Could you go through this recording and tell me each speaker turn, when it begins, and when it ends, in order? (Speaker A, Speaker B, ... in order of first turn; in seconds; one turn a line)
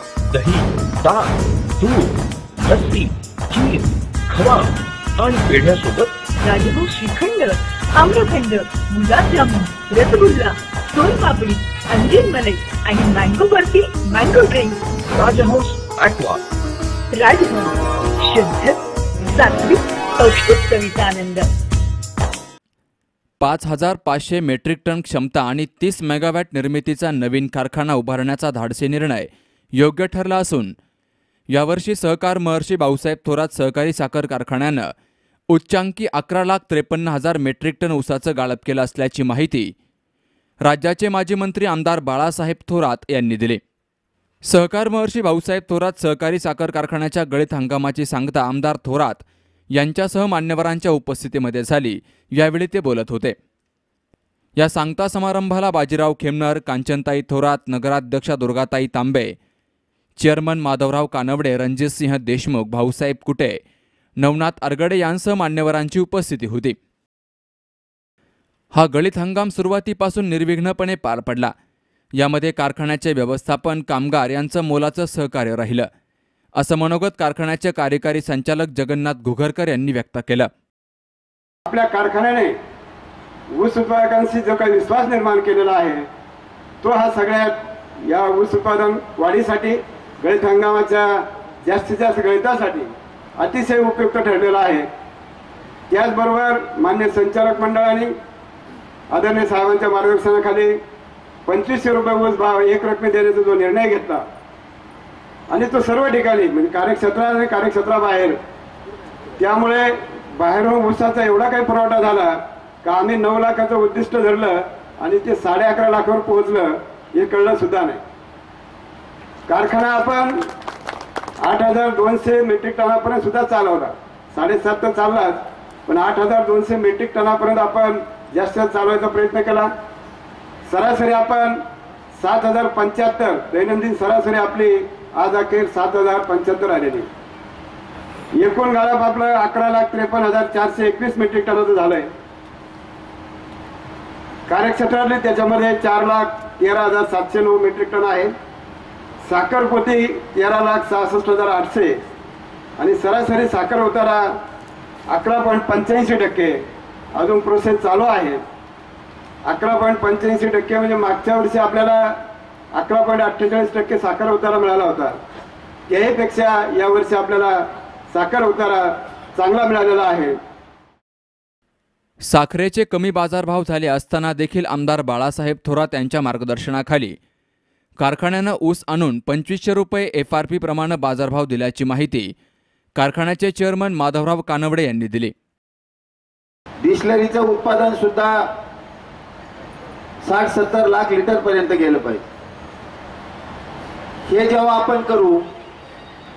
Speaker A: 0.3-2.1
Speaker A: 2.7-6.1
Speaker B: 6.4-14.8
Speaker A: 15.2-16.4
Speaker B: 17.1-21.5
Speaker C: 23.4-30.8
Speaker C: 31.5-34.9
Speaker C: 35.5-39.7
Speaker C: 40.6-43.6
Speaker C: 44.5-53.4
Speaker C: 54.6-59.4
Speaker C: 60.2-63.6
Speaker C: 64.2-66.8
Speaker C: 68.7-71.5
Speaker C: 72.2-75.9
Speaker C: 76.6-80.5
Speaker D: 81.7-82.5
Speaker D: 83.5-86.1
Speaker D: 86.8-94.9
Speaker D: 95.9-98.1
Speaker D: 99.1-100.8
Speaker D: 101.5-104.2
Speaker D: 105.5-108.3
Speaker D: 109.4-112.3
Speaker D: 112.8-118.0
Speaker D: 119.5-120.3
Speaker D: 121.4-129.7
Speaker D: 130.7-131.6
Speaker D: 132.2-137.1
Speaker D: 138.4-142.1
Speaker D: 144.5-148.3
Speaker D: 149.2-152.0
Speaker D: 152.8-154.3
Speaker D: 155.1-156.6
Speaker D: 157.2-158.4
Speaker D: 159.4-162.1
Speaker D: 162.7-165.2
Speaker D: 165.9-167.6
Speaker D: 168.1-170.3
Speaker C: 172.2-177.2
Speaker C: 178.0-182.3
Speaker C: 183.0-185.3
Speaker E: 186.8-188.4
Speaker E: 190.2-192.2
Speaker E: 194.3-195.4